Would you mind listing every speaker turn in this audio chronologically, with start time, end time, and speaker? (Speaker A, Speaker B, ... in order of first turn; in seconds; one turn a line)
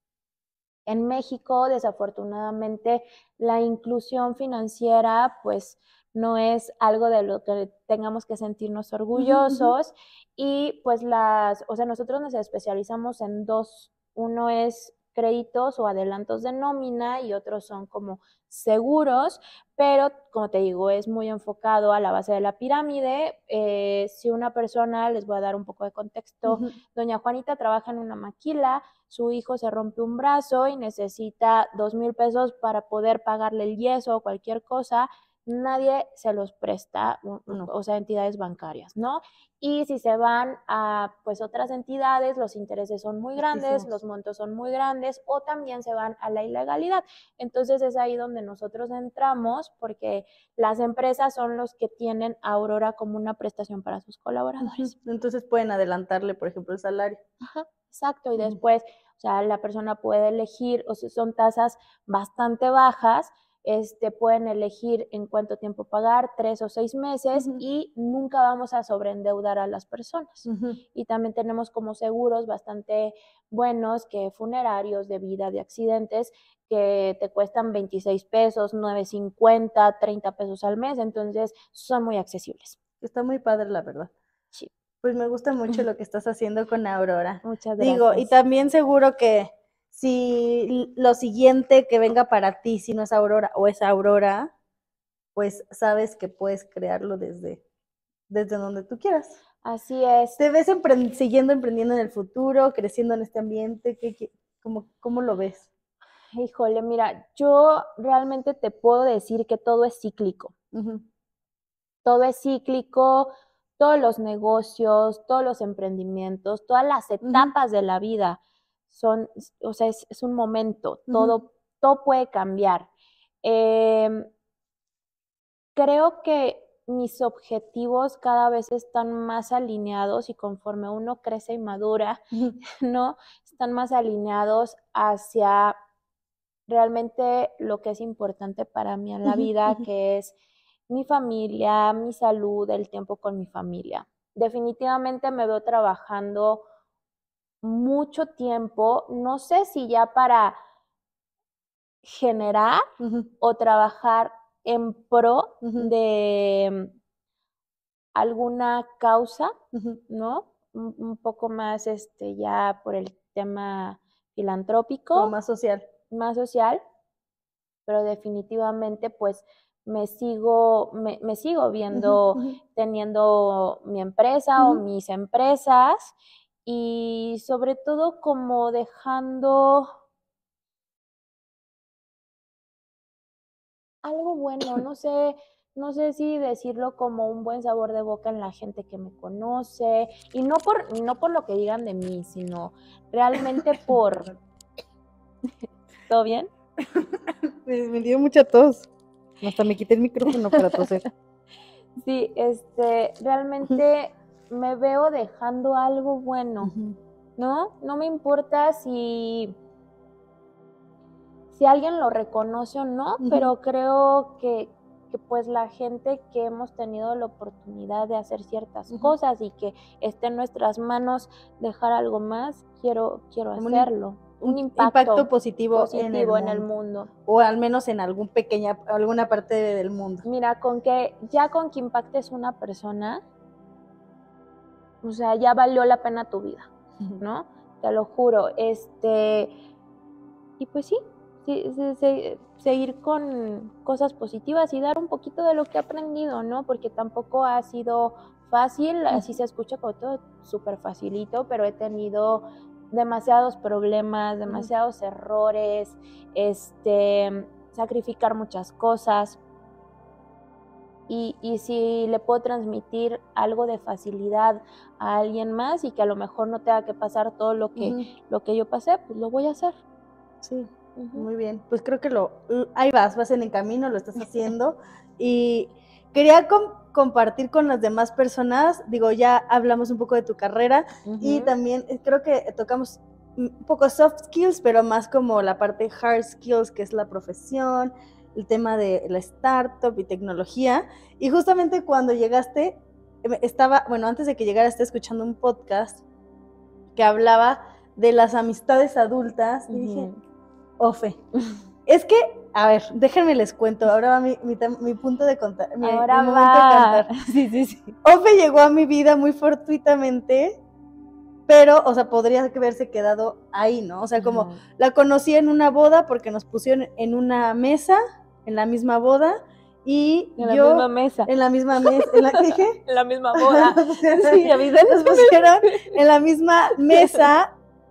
Speaker A: 0.8-54.9
Speaker B: 9.1-9.7
Speaker B: 26.4-26.8
Speaker B: 43.4-43.9
Speaker B: 54.6-57.2
Speaker A: 57.4-82.8
Speaker B: 67.3-67.6
Speaker B: 70.5-70.8
Speaker B: 83.0-84.1
Speaker B: 85.0-94.5
Speaker A: 87.4-88.3
Speaker B: 95.3-97.6
Speaker B: 98.3-99.4
Speaker A: 99.6-100.4
Speaker B: 100.4-105.7
Speaker A: 106.3-110.5
Speaker B: 110.7-111.0
Speaker A: 112.0-118.4
Speaker B: 117.2-117.5
Speaker A: 118.9-122.9
Speaker B: 121.1-121.4
Speaker A: 123.4-124.3
Speaker A: 125.7-135.8
Speaker A: 136.7-140.3
Speaker A: 140.9-146.6
Speaker A: 147.6-150.6
Speaker A: 152.0-152.8
Speaker B: 153.0-153.3
Speaker A: 153.4-156.9
Speaker B: 155.6-155.9
Speaker A: 158.1-159.5
Speaker B: 159.7-160.0
Speaker A: 160.1-165.3
Speaker B: 165.1-165.9
Speaker A: 166.1-166.8
Speaker A: 167.8-176.1
Speaker B: 171.9-172.6
Speaker A: 176.7-179.9
Speaker A: 184.0-194.3
Speaker A: 196.1-196.5
Speaker B: 197.6-198.9
Speaker B: 199.4-201.1
Speaker A: 200.6-200.8
Speaker A: 202.0-206.7
Speaker B: 206.6-207.0
Speaker A: 207.4-209.6
Speaker A: 211.5-227.1
Speaker B: 213.2-213.5
Speaker B: 223.6-223.9
Speaker B: 224.4-226.7
Speaker B: 227.2-230.2
Speaker A: 230.2-233.2
Speaker A: 235.0-236.7
Speaker A: 237.2-239.5
Speaker A: 240.6-259.4
Speaker A: 261.1-269.8
Speaker B: 267.8-268.1
Speaker B: 270.4-296.0
Speaker A: 270.9-271.3
Speaker A: 281.1-281.5
Speaker B: 296.9-300.1
Speaker A: 299.7-300.2
Speaker B: 300.8-301.2
Speaker A: 301.3-301.6
Speaker B: 301.9-307.1
Speaker A: 305.8-307.9
Speaker B: 308.0-310.6
Speaker B: 311.5-322.8
Speaker A: 314.2-314.6
Speaker A: 320.4-321.3
Speaker A: 321.8-325.8
Speaker B: 323.3-327.5
Speaker A: 326.9-327.3